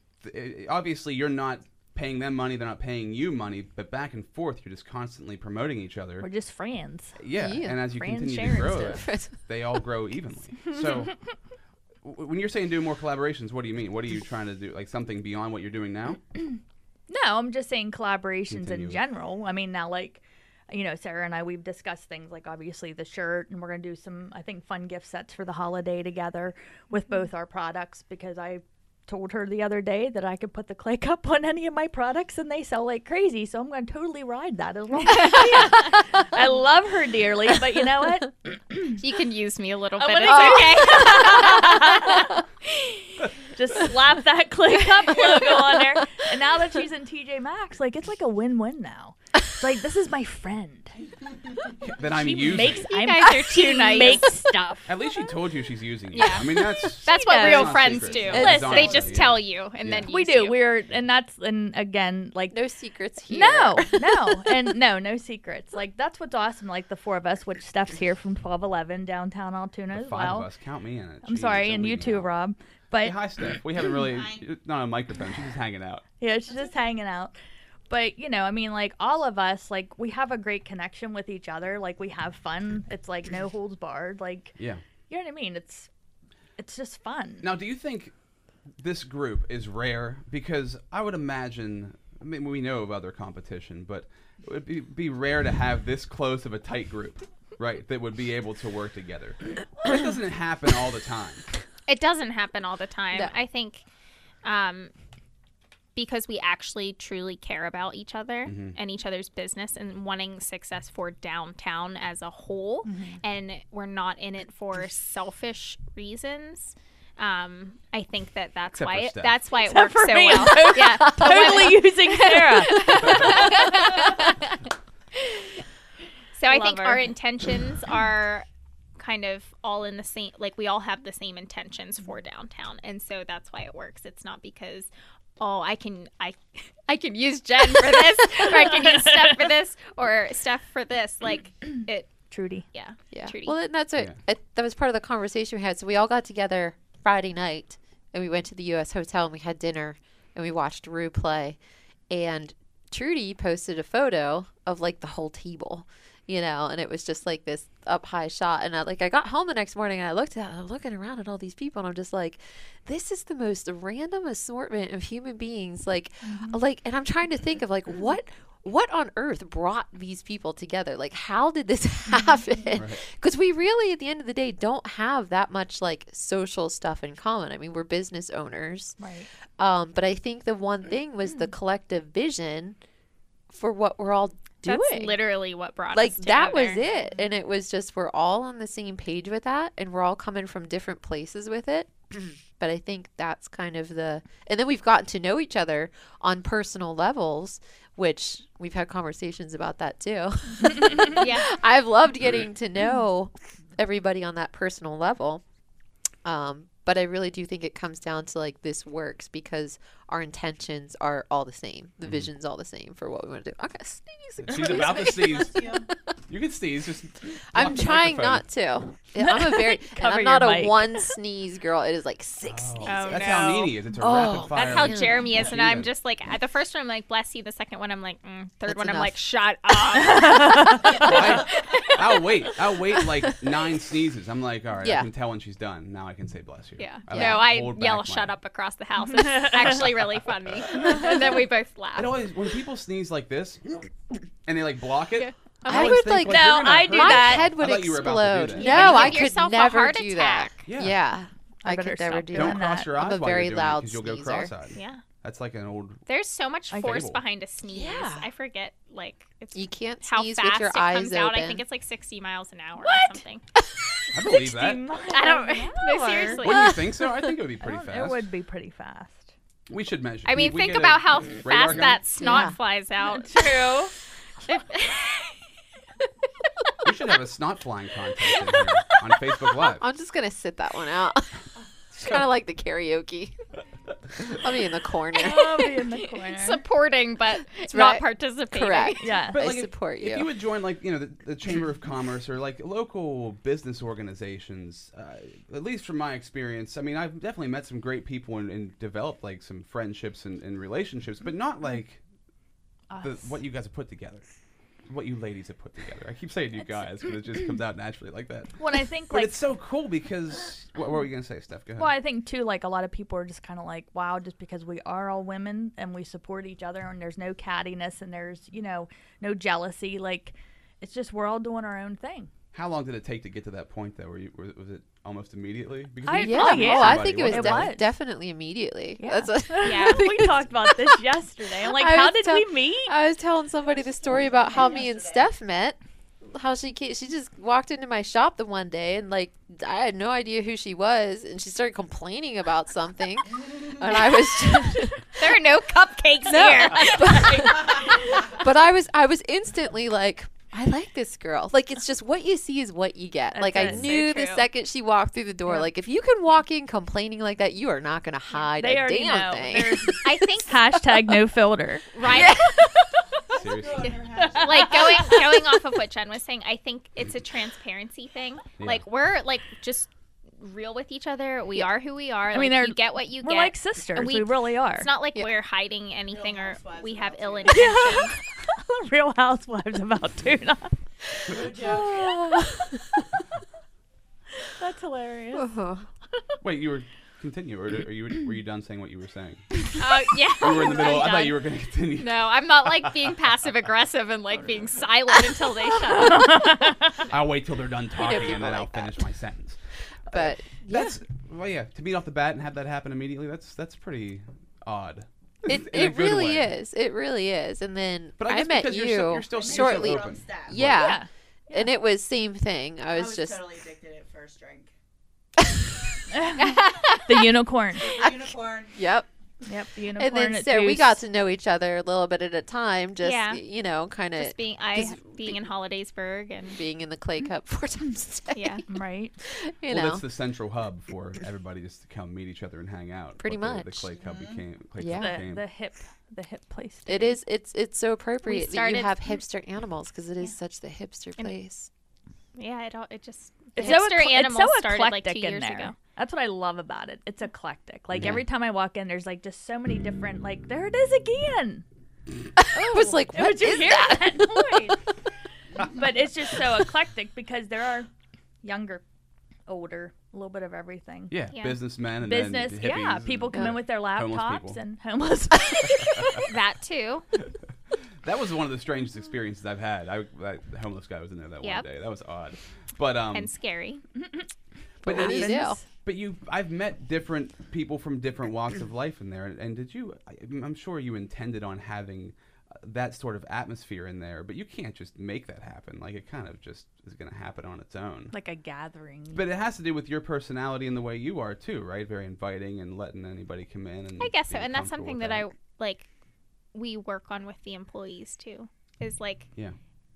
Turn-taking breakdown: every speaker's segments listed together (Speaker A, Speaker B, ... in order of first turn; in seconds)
Speaker A: 0.2-6.3, 7.2-11.1, 12.0-16.2, 18.5-19.0, 51.8-52.9, 54.9-60.1, 69.9-72.3, 73.0-76.0, 87.4-88.1, 88.8-101.4, 108.4-108.8, 118.7-119.4, 172.7-173.0, 212.0-212.3, 214.4-218.5, 222.4-225.9, 230.9-238.3, 240.6-241.1, 241.9-243.9, 244.4-249.3, 250.6-251.0, 252.3-256.0, 256.8-257.2, 264.1-264.8, 266.4-268.3, 269.7-272.0, 276.8-279.8, 289.3-302.0, 303.0-304.2, 304.9-311.9, 322.5-327.7, 363.3-364.0, 368.6-368.8, 386.4-389.6, 390.4-392.3, 397.1-399.6, 400.1-406.5, 408.2-410.9, 429.7-435.4, 447.9-448.2, 461.1-464.6, 465.8-466.2, 468.0-473.3, 474.9-488.1, 489.1-495.3
Speaker B: 6.2-7.2, 7.8-9.0, 17.1-39.0, 40.0-50.9, 52.0-55.0, 57.1-59.2, 60.1-62.6, 63.3-70.5, 71.2-73.2, 76.2-77.3, 77.9-84.6, 85.1-85.9, 86.6-87.5, 112.8-113.2, 119.6-124.1, 126.5-127.1, 142.3-142.6, 166.3-166.6, 179.0-179.3, 219.2-221.1, 229.9-231.3, 239.2-239.6, 246.2-247.6, 248.6-249.0, 251.6-253.0, 256.7-257.0, 264.2-266.5, 267.6-269.3, 273.1-273.9, 285.1-286.6, 289.0-289.4, 302.9-303.4, 308.6-309.4, 311.8-322.3, 326.0-327.9, 329.0-332.9, 347.0-347.9, 353.3-353.9, 358.5-361.9, 372.3-374.9, 377.5-380.7, 384.6-385.5, 395.9-397.0, 410.7-411.7, 416.1-418.0, 419.4-421.0, 428.7-429.2, 434.9-437.2, 443.6-451.6, 452.5-454.8, 455.6-457.9, 458.4-458.8, 459.5-461.1, 462.0-466.2, 474.8-475.6, 488.1-489.2
Speaker C: 7.3-7.8, 8.7-9.4, 40.2-42.2, 58.2-59.0, 62.5-64.7, 120.8-121.9, 122.8-124.0, 143.1-151.6, 152.1-179.0, 179.6-182.8, 183.5-185.2, 185.9-205.4, 206.2-215.8, 217.5-225.5, 228.7-229.2, 234.8-235.1, 237.1-237.5, 245.6-254.5, 257.7-258.3, 259.5-261.6, 272.1-272.6, 279.6-281.4, 281.9-283.4, 284.2-286.0, 287.6-290.3, 326.1-331.0, 331.6-345.4, 346.2-360.2, 362.0-362.9, 364.8-365.2, 381.4-383.0, 385.3-385.9, 397.9-399.0, 400.1-400.9, 405.4-413.4, 416.4-417.2, 418.0-419.1, 419.9-425.4, 426.5-428.6, 429.2-430.0, 433.2-433.9, 434.8-435.2, 436.9-441.7, 443.6-443.8, 452.4-454.5, 474.8-475.6
Speaker D: 35.3-35.7, 39.0-42.2, 52.6-54.3, 56.1-60.7, 101.9-103.8, 104.4-104.9, 105.9-124.4, 126.3-128.4, 129.0-143.6, 184.6-186.8, 201.1-201.5, 222.8-223.7, 224.5-232.0, 236.8-242.1, 245.2-246.0, 248.5-250.6, 254.7-255.0, 256.1-263.4, 265.1-266.8, 270.2-273.5, 274.5-275.2, 286.1-289.2, 329.6-330.1, 345.1-347.9, 353.6-354.5, 360.0-360.7, 361.9-362.7, 364.2-378.2, 389.8-391.4, 391.9-396.5, 423.0-423.4, 424.1-426.6, 428.3-428.6, 438.2-439.2, 442.3-445.8, 461.3-461.6, 466.2-467.1, 473.1-473.8, 494.0-495.9, 496.5-499.3
Speaker E: 215.4-215.8, 334.0-335.2, 363.3-364.9, 376.1-377.9, 381.3-382.4, 409.2-410.7, 412.9-414.7, 417.8-418.8, 433.9-434.4